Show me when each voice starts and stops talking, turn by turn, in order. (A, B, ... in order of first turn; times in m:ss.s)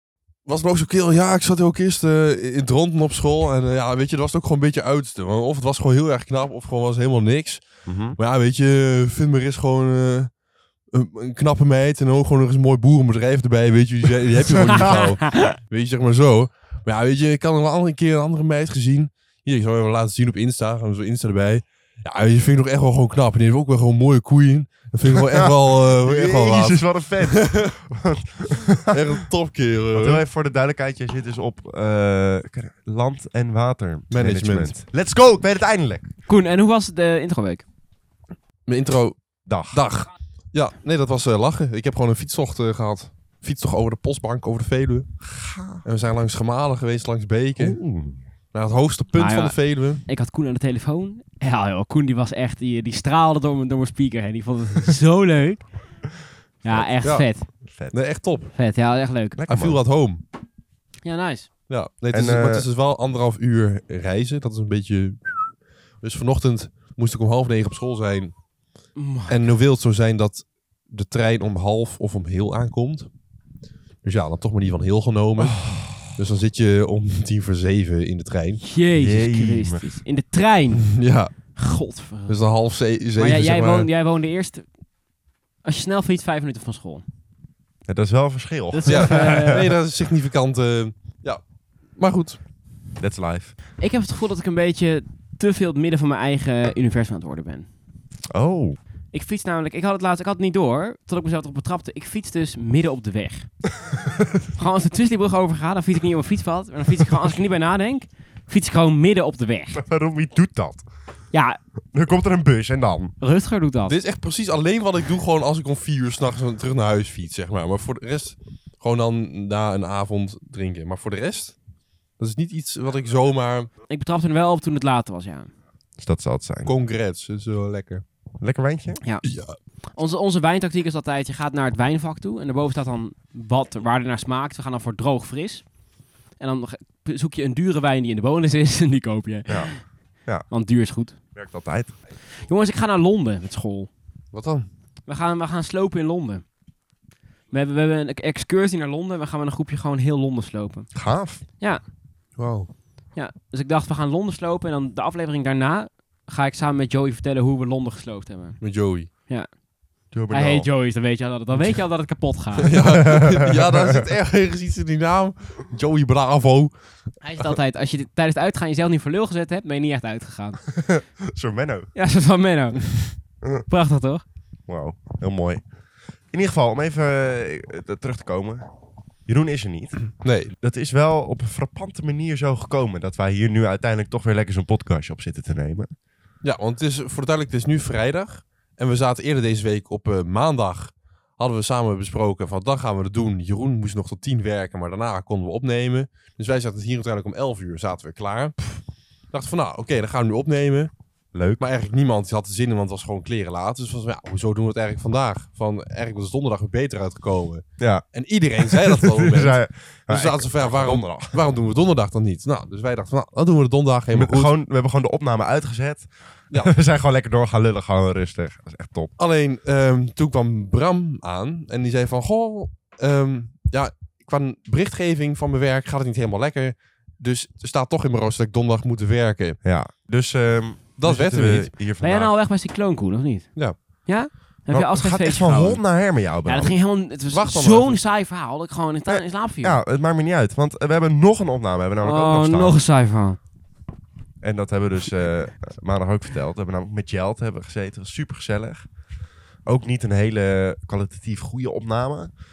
0:00.4-0:27.7 A
0:07.8-0:08.2 B
0:25.2-0:29.0 B
0:28.9-0:30.2 A
0:29.9-0:36.1 B
0:34.1-0:34.7 A
0:36.3-0:37.6 C
0:38.6-0:45.1 A
0:39.4-0:39.8 B
0:45.2-0:45.8 B
0:45.8-0:47.8 A
0:47.6-0:48.2 B
0:48.5-0:50.0 A
0:49.1-0:55.6 C
0:56.6-0:57.5 C
0:56.6-0:56.9 B
0:57.6-0:58.0 B
0:57.9-0:58.5 A
0:58.5-0:59.4 C
0:59.4-0:59.8 B
0:59.5-1:00.2 A
1:01.0-1:01.5 C
1:01.7-1:08.4 A
1:02.1-1:02.6 B
1:09.0-1:09.5 C
1:09.3-1:13.1 A
1:14.0-1:18.6 A
1:15.5-1:16.0 B
1:18.6-1:20.9 C
1:19.0-1:19.9 B
1:20.8-1:21.3 A
1:21.5-1:22.4 C
1:22.3-1:23.9 A
1:23.2-1:24.6 C
1:25.6-1:27.0 C
1:27.9-1:29.6 B
1:28.7-1:29.7 C
1:28.8-1:31.4 A
1:32.0-1:32.4 A
1:33.0-1:33.5 B
1:33.8-1:37.7 C
1:38.3-1:38.8 B
1:39.1-1:43.5 C
1:44.6-1:49.8 C
1:49.7-1:50.8 B
1:51.3-1:51.6 C
1:51.9-1:53.1 B
1:53.2-1:54.0 C
1:53.9-2:01.6 A
2:02.2-2:03.7 A
2:03.9-2:05.5 C
2:06.0-2:06.7 B
2:06.6-2:08.0 A
2:08.4-2:09.0 B
2:09.2-2:09.6 A
2:09.9-2:15.6 C
2:16.4-2:19.8 C
2:20.5-2:21.2 C
2:21.3-2:21.9 B
2:22.4-2:23.9 C
2:24.3-2:24.7 A
2:25.1-2:26.4 C
2:27.5-2:30.9 C
2:30.9-2:31.4 B
2:32.4-2:32.7 A
2:33.1-2:38.6 C
2:38.6-2:39.1 A
2:40.1-2:40.7 B
2:40.3-2:42.8 C
2:42.6-2:46.7 A
2:42.8-2:43.8 B
2:47.2-2:50.6 C
2:50.8-2:51.9 B
2:51.9-2:54.2 C
2:54.7-2:55.6 B
2:56.3-2:58.6 B
2:59.2-3:05.9 B
3:00.2-3:00.5 A
3:06.4-3:18.7 A
3:19.3-3:20.9 A
3:21.3-3:21.6 B
3:21.6-3:34.5 A
3:27.8-3:28.0 B
3:28.6-3:31.4 B
3:34.1-3:39.1 B
3:39.2-3:49.6 A
3:49.6-3:52.3 B
3:51.0-3:51.7 A
3:52.0-3:59.8 C
3:54.7-3:56.7 B
3:57.3-3:58.0 A
3:59.1-4:02.8 B
4:02.0-4:03.4 C
4:04.4-4:08.9 B
4:09.6-4:12.3 B